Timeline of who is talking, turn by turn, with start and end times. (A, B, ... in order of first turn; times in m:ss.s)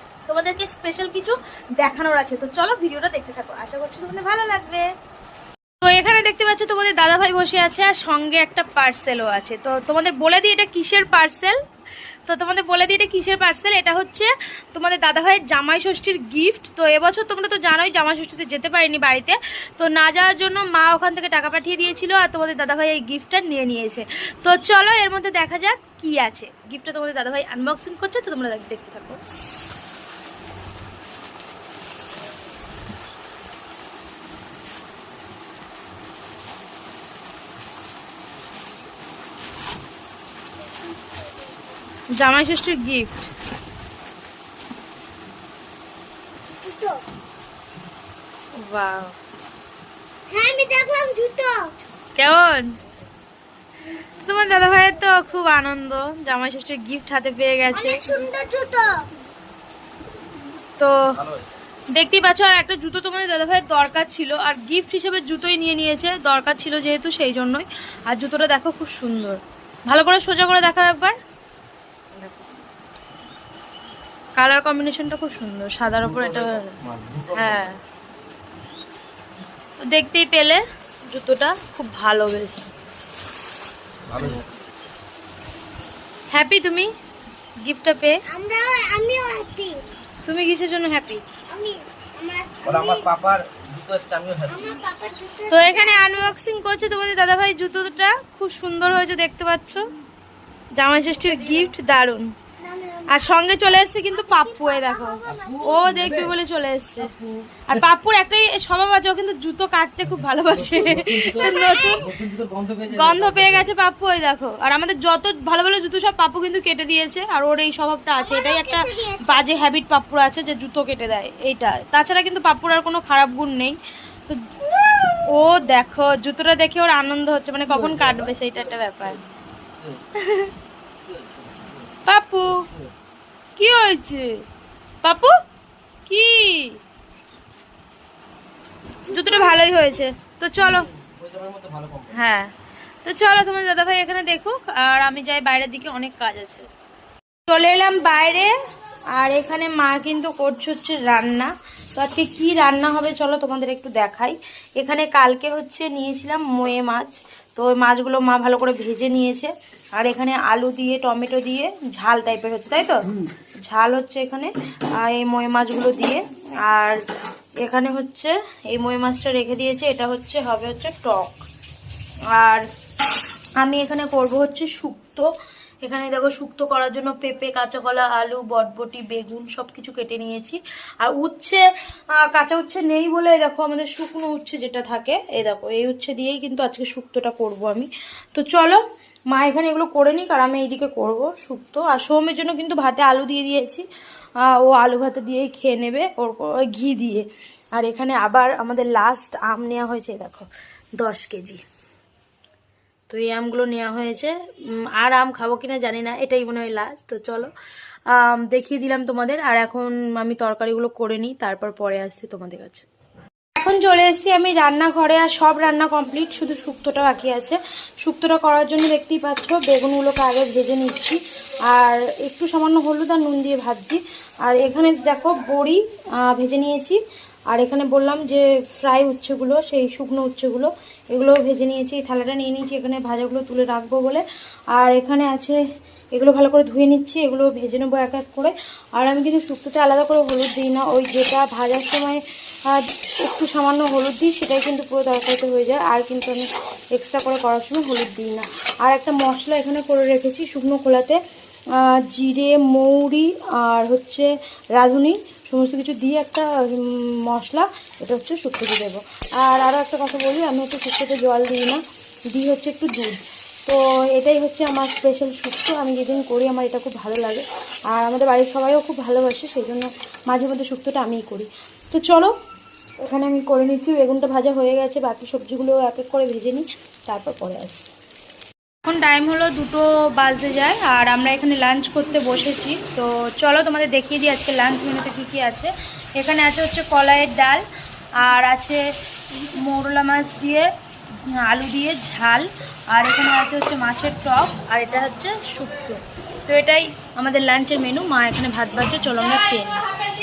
0:00.3-0:04.9 A
0:05.8-0:11.6 A
0:12.3-0:29.2 A
0:40.7-0:41.4 B
0:42.1-0:43.3 A
0:46.6-0:47.0 B
0:48.6-0:49.2 A
0:50.3-0:51.7 B
0:52.2-0:52.7 A
0:54.2-0:58.2 A
0:57.7-0:59.0 B
1:00.8-1:01.2 A
1:01.2-1:01.4 C
1:01.9-1:11.2 A
1:12.2-1:12.5 A
1:14.4-1:16.8 A
1:16.0-1:17.7 C
1:17.3-1:17.8 A
1:19.8-1:22.7 A
1:24.1-1:24.4 C
1:26.3-1:26.9 A
1:27.6-1:28.2 A
1:28.3-1:29.8 B
1:30.2-1:31.2 A
1:31.5-1:33.1 B
1:32.6-1:34.7 C
1:34.5-1:36.2 B
1:35.5-1:39.9 A
1:40.8-1:42.3 A
1:42.6-1:43.3 B
1:43.1-1:47.1 A
1:44.1-1:45.9 B
1:45.3-1:46.4 C
1:47.0-1:47.6 C
1:47.7-1:52.1 A
1:50.5-1:53.7 C
1:51.4-1:52.0 B
1:52.8-2:04.5 A
1:58.2-1:59.4 B
2:05.1-2:09.2 A
2:07.7-2:08.3 C
2:10.2-2:10.5 A
2:11.1-2:11.7 C
2:12.0-2:12.7 A
2:13.6-2:14.4 A
2:15.0-2:15.4 A
2:16.1-2:16.8 A
2:19.1-2:20.9 A
2:19.1-2:19.6 B
2:20.6-2:22.2 C
2:22.1-2:22.5 A
2:23.0-2:26.7 A
2:27.5-2:28.5 A
2:29.2-2:43.1 A
2:43.7-2:47.0 A
2:47.6-2:51.4 A
2:52.3-2:52.6 A
2:53.6-2:55.3 A
2:55.8-3:08.8 A
3:09.3-3:13.8 A
3:14.4-3:21.6 A
3:23.1-3:27.5 A
3:28.1-3:32.8 A
3:33.6-3:55.6 A
3:56.1-4:11.2 A
4:11.7-4:32.3 A
4:33.0-4:37.8 A
4:38.8-4:47.6 A
4:48.2-4:48.8 A
4:49.3-4:50.7 A
4:51.4-4:59.8 A